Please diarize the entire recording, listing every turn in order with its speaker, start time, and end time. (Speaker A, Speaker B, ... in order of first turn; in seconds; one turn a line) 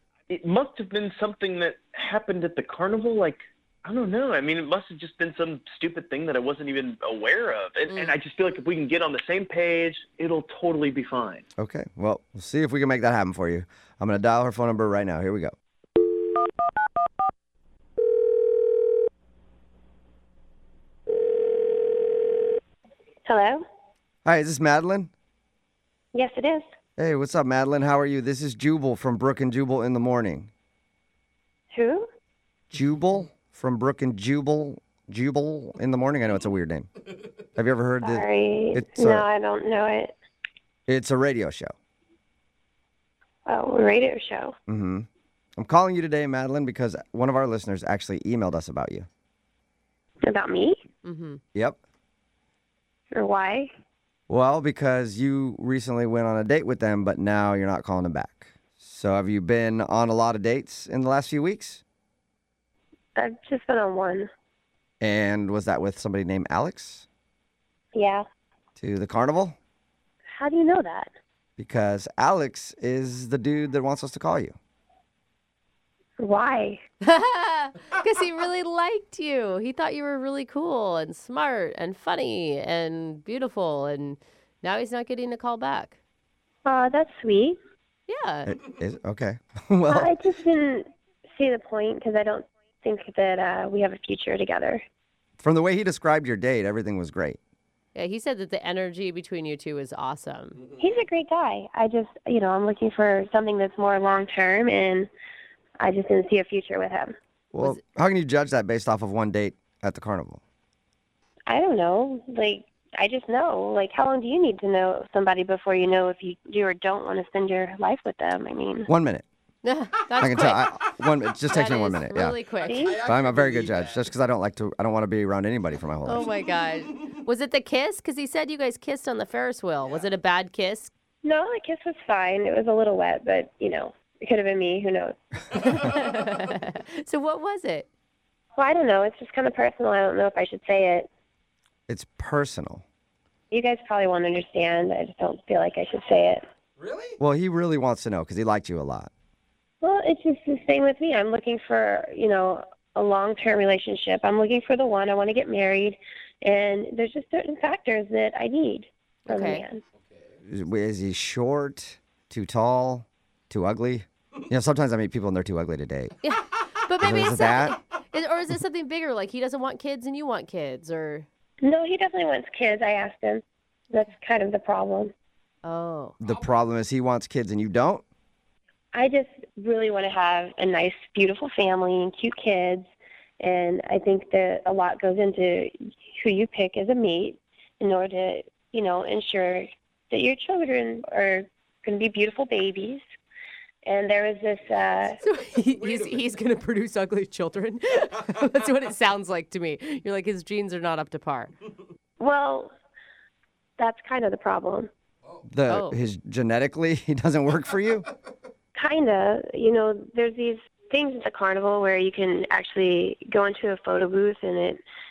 Speaker A: 0.3-11.4
Speaker B: 11.6-15.5
Speaker C: 23.2-23.6
Speaker B: 24.2-25.1
Speaker C: 26.1-26.6
Speaker B: 27.0-30.5
Speaker C: 31.7-32.1
Speaker B: 32.7-36.9
Speaker B: 37.6-39.2
Speaker C: 38.0-40.1
Speaker B: 40.9-41.7
Speaker C: 43.5-44.5
Speaker B: 44.7-49.1
Speaker C: 50.2-50.8
Speaker D: 51.0-51.4
Speaker B: 51.5-51.8
Speaker C: 53.1-53.7
Speaker B: 54.3-61.8
Speaker C: 63.1-64.3
Speaker B: 65.0-67.0
Speaker C: 67.9-68.2
Speaker B: 68.8-69.6
Speaker C: 70.3-71.1
Speaker B: 71.6-74.6
Speaker C: 76.2-76.8
Speaker D: 77.0-86.0
Speaker C: 86.6-87.6
Speaker D: 88.1-88.5
Speaker B: 88.5-90.1
Speaker C: 89.9-94.8
Speaker B: 95.4-97.4
Speaker D: 98.0-100.6
Speaker C: 100.8-105.1
Speaker C: 105.8-107.1
Speaker B: 107.5-110.4
Speaker C: 111.5-118.9
Speaker B: 118.9-119.2
Speaker D: 119.6-120.7
Speaker B: 120.2-122.4
Speaker D: 121.5-122.9
Speaker C: 122.6-123.0
Speaker E: 122.7-124.1
Speaker B: 122.9-126.2
Speaker D: 126.0-130.9
Speaker E: 126.2-127.2
Speaker E: 129.8-130.1
Speaker C: 131.2-135.2
Speaker D: 135.6-137.9
Speaker C: 138.6-141.1
Speaker B: 141.9-142.8
Speaker C: 143.5-146.4
Speaker E: 146.8-147.2
Speaker B: 147.2-149.1
Speaker C: 149.8-159.8
Speaker D: 159.2-159.6
Speaker E: 160.0-160.3
Speaker B: 160.5-166.1
Speaker D: 166.2-171.2
Speaker B: 167.0-167.8
Speaker C: 171.6-175.1
Speaker D: 175.6-176.1
Speaker B: 176.2-178.0
Speaker E: 176.2-176.6
Speaker C: 178.9-182.9
Speaker C: 183.4-193.0
Speaker C: 193.8-195.2
Speaker D: 195.2-201.5
Speaker E: 195.6-196.2
Speaker C: 202.2-202.7
Speaker C: 203.8-204.9
Speaker B: 205.5-208.1
Speaker D: 205.7-206.0
Speaker C: 208.8-214.8